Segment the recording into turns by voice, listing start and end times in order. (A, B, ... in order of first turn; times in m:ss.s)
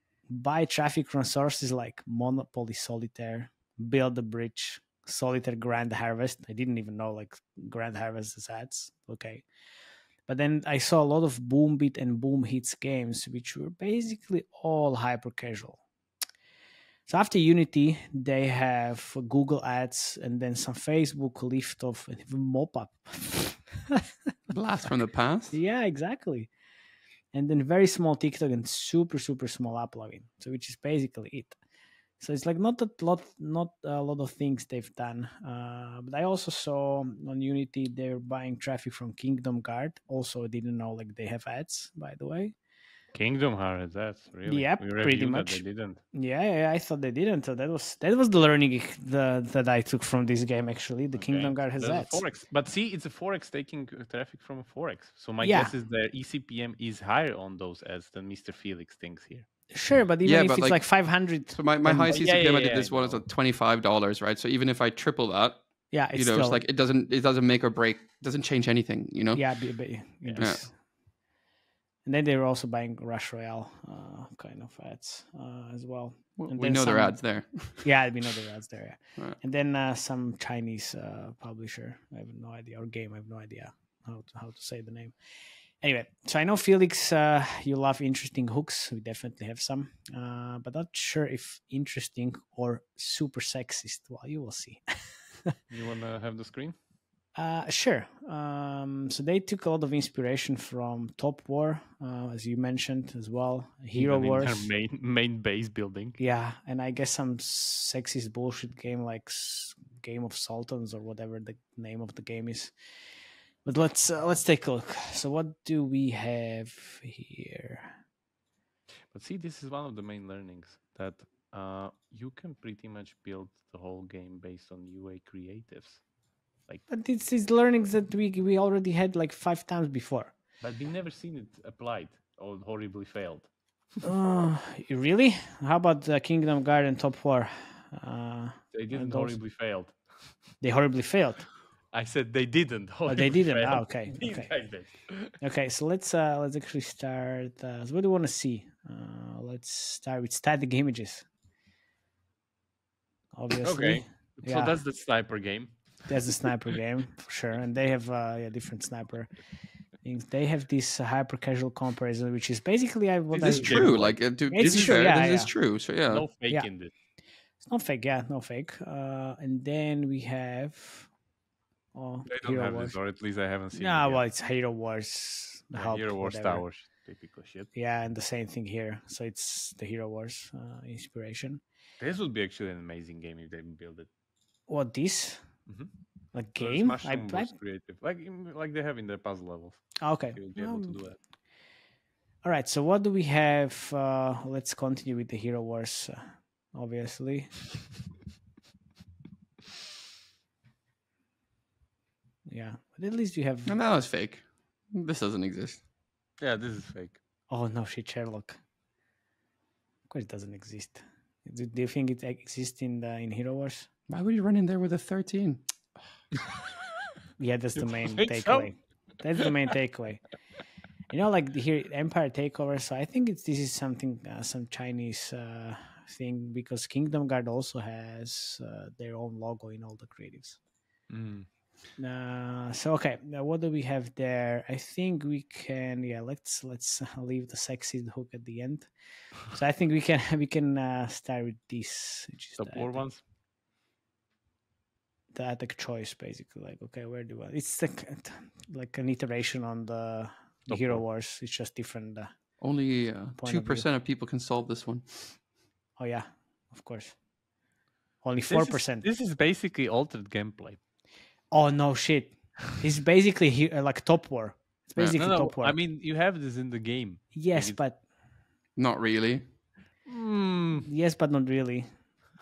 0:00.3-0:09.5 A
0:10.3-0:15.8 A
0:17.1-0:24.0 A
0:24.5-0:25.6 B
0:25.5-0:26.5 A
0:27.3-0:31.6 A
0:32.2-0:42.6 A
0:43.1-0:46.0 C
0:44.5-0:52.2 A
0:51.2-0:59.5 C
0:55.4-0:55.7 A
0:59.7-1:02.2 A
1:00.2-1:01.0 B
1:01.5-1:05.6 B
1:02.1-1:03.2 C
1:05.9-1:06.6 A
1:06.1-1:09.5 B
1:09.4-1:10.8 A
1:10.2-1:10.6 C
1:10.4-1:10.7 B
1:12.0-1:25.2 A
1:16.4-1:17.9 B
1:25.8-1:35.5 A
1:35.7-1:36.8 C
1:37.4-1:44.6 A
1:44.0-1:46.2 C
1:46.2-1:52.7 A
1:53.6-1:58.0 A
1:59.1-2:06.0 C
2:06.9-2:10.3 A
2:10.6-2:13.5 C
2:14.0-2:19.4 A
2:18.7-2:20.1 C
2:20.6-2:21.5 A
2:21.9-2:25.3 C
2:23.1-2:24.5 A
2:25.4-2:31.3 A
2:33.3-2:34.8 A
2:33.6-2:36.0 C
2:36.1-2:39.3 A
2:40.0-2:45.5 A
2:43.3-2:44.2 C
2:43.4-2:46.3 B
2:46.1-2:46.9 C
2:47.6-2:51.1 A
2:51.9-2:53.0 A
2:52.3-2:54.2 C
2:53.7-2:56.6 A
2:55.7-2:57.7 C
2:57.8-3:01.6 A
3:02.0-3:04.1 C
3:04.7-3:05.5 A
3:06.3-3:07.5 A
3:06.6-3:11.2 C
3:10.0-3:11.0 A
3:12.4-3:17.6 A
3:22.5-3:23.8 A
3:23.7-3:25.8 B
3:26.4-3:27.2 C
3:27.5-3:28.6 A
3:30.1-3:33.9 A
3:34.1-3:35.6 B
3:37.4-3:40.2 A
3:37.8-3:38.7 C
3:41.1-3:50.6 A
3:51.1-3:51.5 C
3:52.0-4:03.1 A
4:02.6-4:03.2 C
4:05.3-4:12.3 A
4:10.7-4:11.0 C
4:12.6-4:15.3 B
4:13.4-4:13.9 A
4:16.0-4:17.2 A
4:18.2-4:19.1 A
4:18.5-4:20.8 C
4:21.5-4:25.8 A
4:25.2-4:27.8 C
4:27.3-4:28.0 A
4:28.8-4:29.4 B
4:30.1-4:30.9 C
4:30.8-4:31.9 A